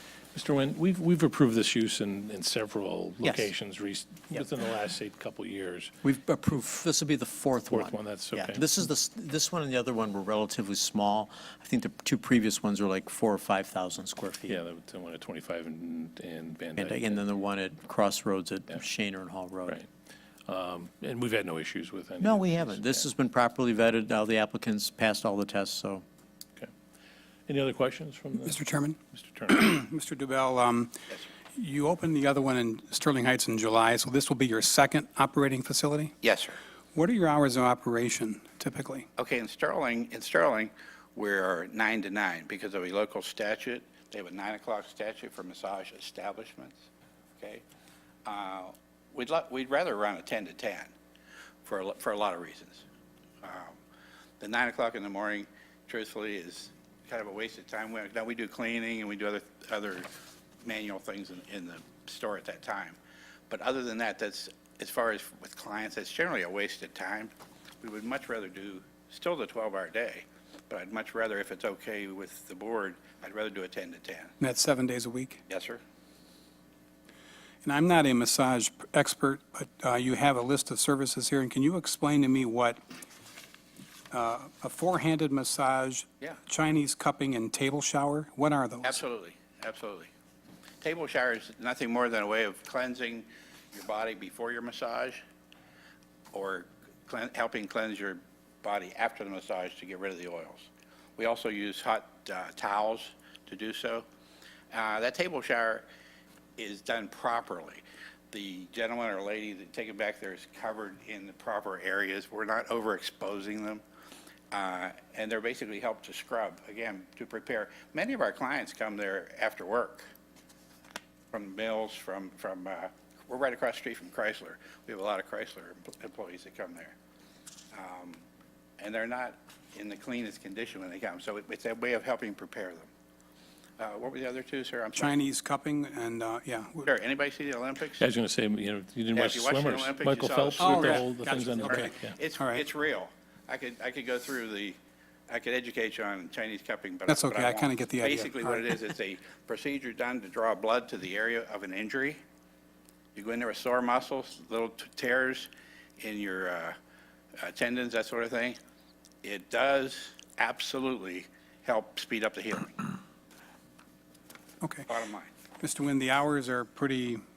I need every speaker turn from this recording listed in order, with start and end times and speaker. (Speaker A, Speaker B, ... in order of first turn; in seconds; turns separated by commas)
Speaker A: 0.3-5.9, Speaker B: 3.2-3.5, Speaker B: 6.0-14.6, Speaker A: 7.7-8.6, Speaker A: 14.5-17.2, Speaker B: 16.8-19.8, Speaker A: 20.5-23.1, Speaker B: 22.2-26.1, Speaker A: 27.5-28.6, Speaker C: 28.4-30.9, Speaker A: 29.1-29.7, Speaker C: 31.6-36.1, Speaker D: 36.2-36.6, Speaker C: 37.0-39.1, Speaker D: 39.2-46.8, Speaker D: 47.4-47.6, Speaker D: 48.3-50.9, Speaker D: 51.6-52.9, Speaker D: 53.4-53.8, Speaker D: 54.4-60.1, Speaker D: 60.6-63.0, Speaker D: 63.5-74.3, Speaker C: 74.4-75.4, Speaker D: 75.5-75.8, Speaker C: 77.6-82.8, Speaker C: 84.1-89.0, Speaker D: 88.8-90.1, Speaker D: 90.8-95.2, Speaker D: 96.3-104.1, Speaker D: 104.7-105.9, Speaker D: 106.6-113.8, Speaker D: 114.5-120.1, Speaker D: 121.3-127.0, Speaker D: 127.7-128.2, Speaker D: 128.8-132.9, Speaker D: 133.8-135.2, Speaker C: 135.0-136.9, Speaker D: 136.8-138.1, Speaker A: 138.0-142.2, Speaker D: 139.1-144.8, Speaker C: 140.6-141.0, Speaker C: 141.7-142.7, Speaker D: 145.3-152.2, Speaker C: 147.1-148.7, Speaker D: 153.2-156.8, Speaker D: 157.4-158.6, Speaker D: 159.2-162.9, Speaker D: 164.9-165.3, Speaker C: 165.6-167.2